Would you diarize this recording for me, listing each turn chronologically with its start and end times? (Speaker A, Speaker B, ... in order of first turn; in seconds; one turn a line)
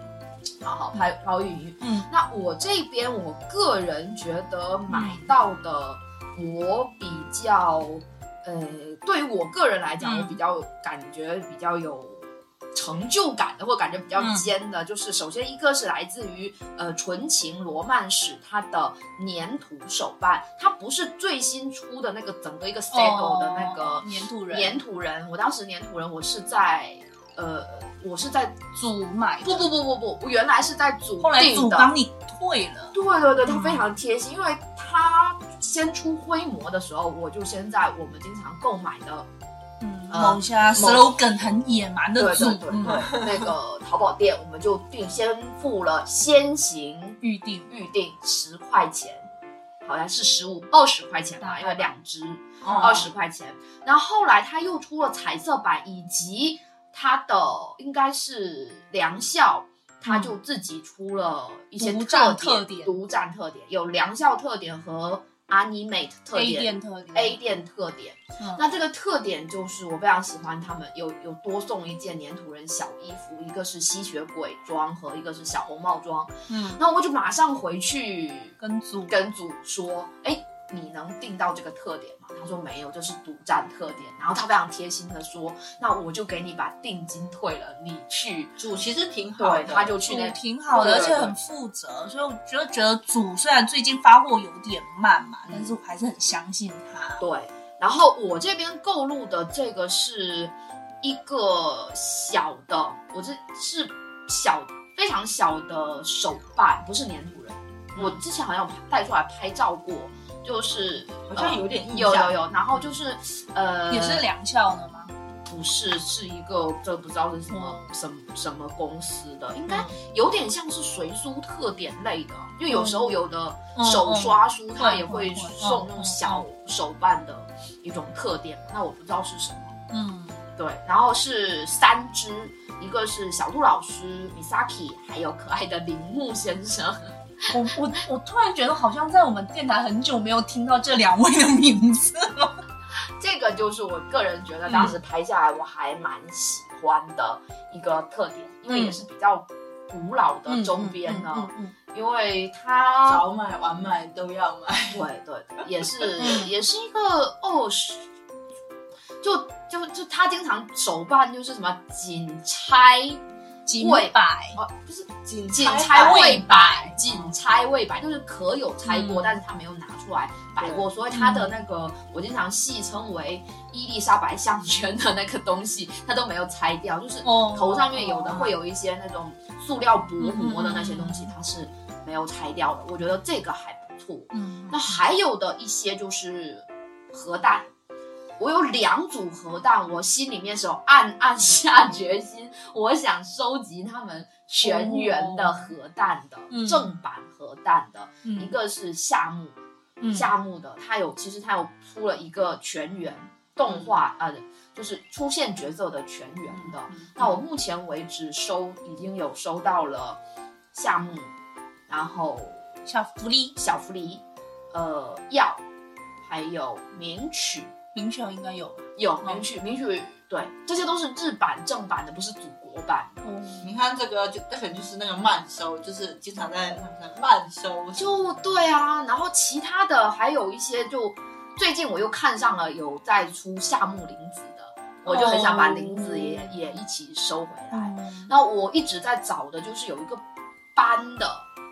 Speaker A: 0.6-28.6
Speaker B: 1.8-2.1
Speaker B: 4.9-5.3
Speaker B: 10.0-10.4
Speaker B: 14.2-14.5
Speaker B: 22.9-24.8
Speaker B: 28.7-29.7
Speaker A: 29.4-31.9
Speaker B: 31.2-33.0
Speaker A: 32.9-39.3
Speaker B: 33.5-33.8
Speaker B: 39.8-43.1
Speaker A: 40.1-41.1
Speaker A: 42.2-49.3
Speaker C: 42.8-43.4
Speaker B: 47.2-47.7
Speaker A: 49.8-78.6
Speaker B: 51.4-51.9
Speaker C: 52.6-53.1
Speaker B: 60.0-60.3
Speaker B: 61.8-62.9
Speaker B: 66.3-67.4
Speaker B: 68.4-68.6
Speaker B: 76.5-76.8
Speaker B: 78.6-79.2
Speaker A: 79.1-88.5
Speaker C: 88.6-89.9
Speaker A: 89.4-91.3
Speaker B: 90.0-97.2
Speaker C: 90.8-91.3
Speaker A: 97.2-114.2
Speaker C: 111.2-112.4
Speaker B: 113.9-115.1
Speaker A: 115.5-129.8
Speaker B: 117.5-117.9
Speaker B: 119.7-119.9
Speaker B: 122.7-123.2
Speaker B: 123.7-126.4
Speaker B: 129.9-130.4
Speaker A: 130.6-137.5
Speaker B: 137.5-142.5
Speaker A: 143.2-153.2
Speaker B: 144.7-145.0
Speaker B: 148.7-149.0
Speaker B: 150.5-151.7
Speaker C: 153.1-155.1
Speaker A: 154.9-158.1
Speaker B: 156.2-156.5
Speaker A: 159.2-163.2
Speaker B: 163.7-164.6
Speaker A: 163.8-187.7
Speaker C: 165.0-166.5
Speaker B: 165.9-167.0
Speaker C: 167.1-167.3
Speaker B: 168.8-169.4
Speaker C: 170.6-170.8
Speaker B: 171.1-171.5
Speaker B: 177.2-178.5
Speaker B: 180.2-181.3
Speaker B: 184.3-184.9
Speaker A: 188.4-199.6
Speaker B: 194.6-195.7
Speaker B: 196.5-196.9
Speaker B: 198.2-198.5
Speaker B: 200.0-200.3
Speaker A: 200.1-210.2
Speaker B: 206.9-207.4
Speaker A: 210.7-211.3
Speaker A: 211.9-212.6
Speaker B: 212.8-213.6
Speaker A: 213.6-215.6
Speaker A: 216.2-217.7
Speaker B: 217.9-219.4
Speaker A: 218.9-223.2
Speaker B: 223.2-223.7
Speaker C: 223.6-228.7
Speaker A: 227.9-240.2
Speaker B: 235.1-236.5
Speaker B: 237.7-238.3
Speaker A: 240.7-241.4